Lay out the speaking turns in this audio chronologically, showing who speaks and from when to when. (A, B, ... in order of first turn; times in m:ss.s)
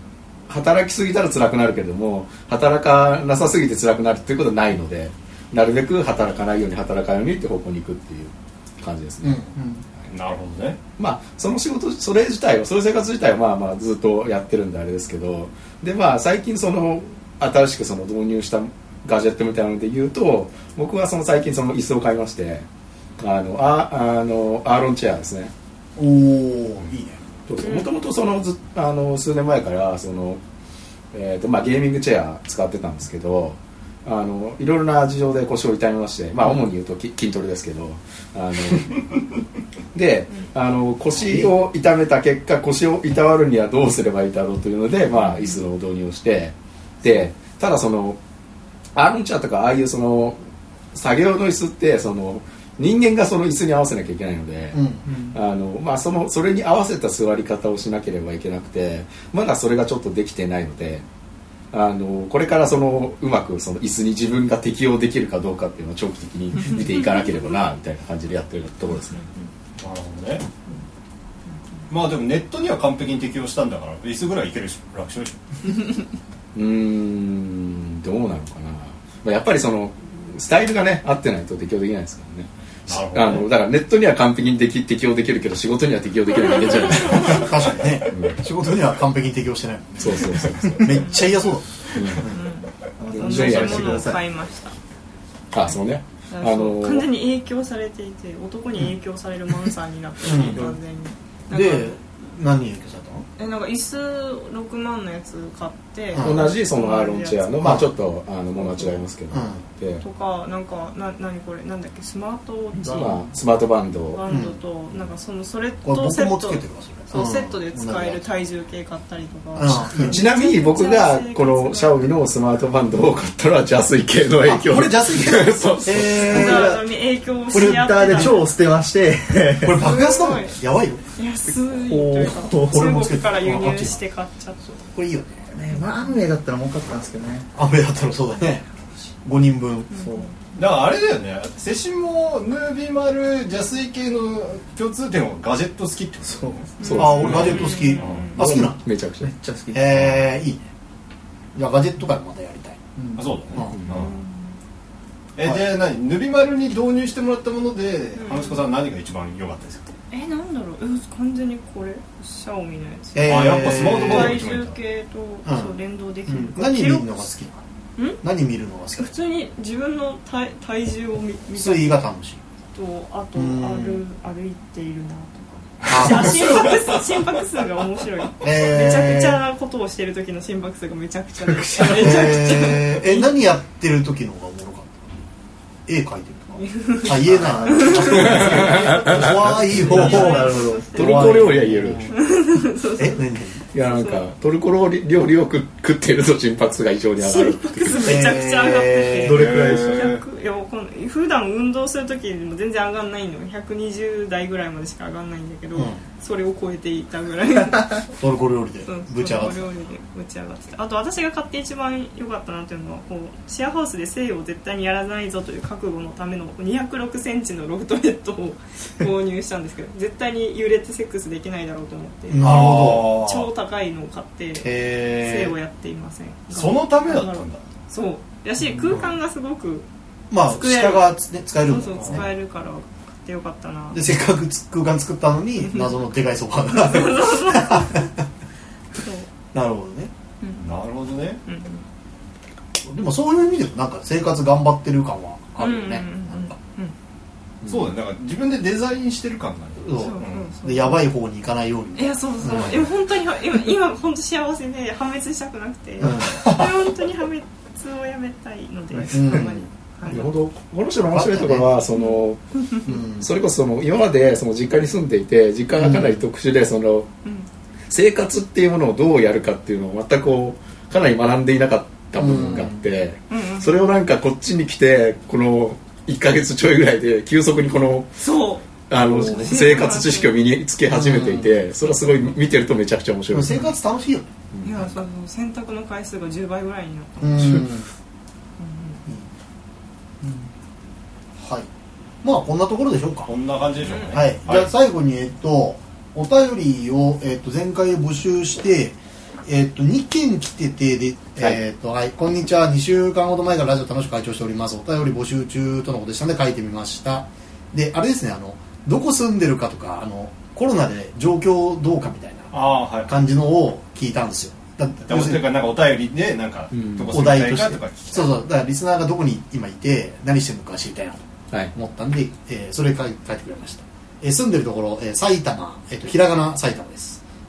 0:00.5-0:09.4 A
0:09.2-0:09.5 B
0:09.5-0:09.8 C
0:10.1-0:10.8 D
0:11.0-0:22.7 A
0:23.2-0:25.5 A
0:26.0-0:27.2 B
0:27.5-0:30.4 A
0:27.6-0:27.9 E
0:31.1-0:39.1 A
0:39.9-0:48.2 A
0:45.2-0:45.6 E
0:48.9-0:50.4 A
0:50.9-1:01.0 A
0:54.7-0:55.0 B
0:55.0-0:55.4 C
1:01.7-1:09.2 A
1:09.1-1:09.4 E
1:09.8-1:10.4 D
1:11.9-1:15.4 D
1:16.5-1:28.4 A
1:22.9-1:23.5 D
1:27.0-1:27.3 E
1:27.1-1:32.4 B
1:30.0-1:31.0 A
1:30.9-1:31.4 E
1:31.9-1:32.2 A
1:32.2-1:34.7 E
1:33.0-1:34.2 C
1:33.1-1:34.2 A
1:35.5-1:37.1 A
1:36.3-1:42.0 E
1:40.2-1:40.8 B
1:40.3-1:40.7 C
1:41.5-1:43.2 B
1:43.4-1:47.5 E
1:46.1-1:46.5 B
1:46.2-1:50.0 A
1:47.6-1:47.8 B
1:48.6-1:49.0 E
1:49.3-1:49.6 B
1:50.0-1:53.2 E
1:52.8-1:54.2 A
1:54.1-2:02.1 E
1:54.2-1:54.6 B
1:55.8-1:58.2 B
1:59.5-2:00.2 B
2:00.0-2:06.7 A
2:04.4-2:06.8 B
2:06.0-2:08.5 E
2:07.5-2:09.9 C
2:09.6-2:11.0 B
2:09.7-2:10.6 E
2:11.2-2:14.7 E
2:11.7-2:13.0 C
2:12.6-2:14.0 B
2:14.9-2:15.5 B
2:15.5-2:17.5 C
2:15.7-2:16.2 E
2:17.5-2:18.6 B
2:19.2-2:19.9 B
2:19.9-2:20.5 E
2:19.9-2:20.3 C
2:20.6-2:28.3 D
2:26.2-2:26.7 C
2:26.8-2:28.4 E
2:26.8-2:27.6 A
2:26.9-2:28.8 B
2:28.4-2:29.3 A
2:29.2-2:30.0 C
2:29.7-2:30.6 B
2:31.5-2:32.8 B
2:33.0-2:33.2 C
2:33.2-2:34.1 D
2:33.9-2:34.6 E
2:35.4-2:39.9 D
2:38.2-2:38.6 E
2:40.1-2:47.3 E
2:43.1-2:44.4 B
2:43.2-2:44.8 D
2:45.4-2:47.6 B
2:48.0-2:48.2 E
2:48.2-2:49.1 B
2:49.0-2:52.0 E
2:51.5-2:52.4 B
2:52.7-3:03.4 E
2:53.3-2:54.0 B
2:55.8-2:56.8 B
2:58.4-2:59.4 B
3:01.8-3:05.0 B
3:05.8-3:12.1 B
3:06.6-3:09.3 E
3:07.2-3:09.0 C
3:08.6-3:10.3 A
3:09.6-3:11.3 C
3:09.8-3:11.4 E
3:10.9-3:12.1 A
3:12.1-3:13.2 E
3:13.0-3:13.6 B
3:13.7-3:18.2 A
3:13.9-3:14.3 E
3:17.2-3:28.1 E
3:18.0-3:19.6 B
3:19.2-3:20.1 C
3:19.2-3:20.2 D
3:25.7-3:26.0 B
3:28.1-3:29.7 B
3:28.8-3:49.8 E
3:42.3-3:43.2 B
3:42.4-3:43.5 D
3:44.6-3:45.6 B
3:46.5-3:47.6 D
3:50.3-3:52.3 B
3:50.4-3:51.1 E
3:51.6-3:54.0 E
3:53.9-3:58.1 B
3:55.6-3:55.9 E
3:56.8-3:57.9 E
3:59.0-3:59.3 E
3:59.5-4:00.1 B
4:00.4-4:00.7 E
4:00.6-4:01.4 D
4:01.4-4:01.8 E
4:02.8-4:06.5 B
4:05.6-4:06.9 E
4:07.6-4:10.5 D
4:09.8-4:12.8 B
4:09.9-4:11.1 E
4:12.0-4:20.2 E
4:16.0-4:16.6 B
4:16.2-4:16.6 D
4:19.1-4:19.7 B
4:20.0-4:27.1 A
4:21.1-4:21.7 B
4:21.9-4:22.2 E
4:22.8-4:23.3 B
4:25.8-4:26.2 B
4:27.9-4:38.1 A
4:32.1-4:32.8 B
4:33.3-4:33.9 E
4:38.2-4:38.6 E
4:38.9-4:43.7 A
4:39.2-4:40.4 E
4:40.9-4:41.5 B
4:43.3-4:44.3 B
4:44.5-4:44.8 A
4:44.6-4:47.7 E
4:47.2-4:47.9 B
4:48.6-4:49.0 E
4:50.2-4:50.5 C
4:51.4-4:51.7 B
4:52.2-4:53.3 B
4:53.3-4:54.7 D
4:53.8-4:54.2 E
4:54.1-5:12.5 B
5:12.5-5:13.3 D
5:13.0-5:15.4 B
5:15.1-5:18.4 D
5:16.7-5:17.1 A
5:17.1-5:27.2 B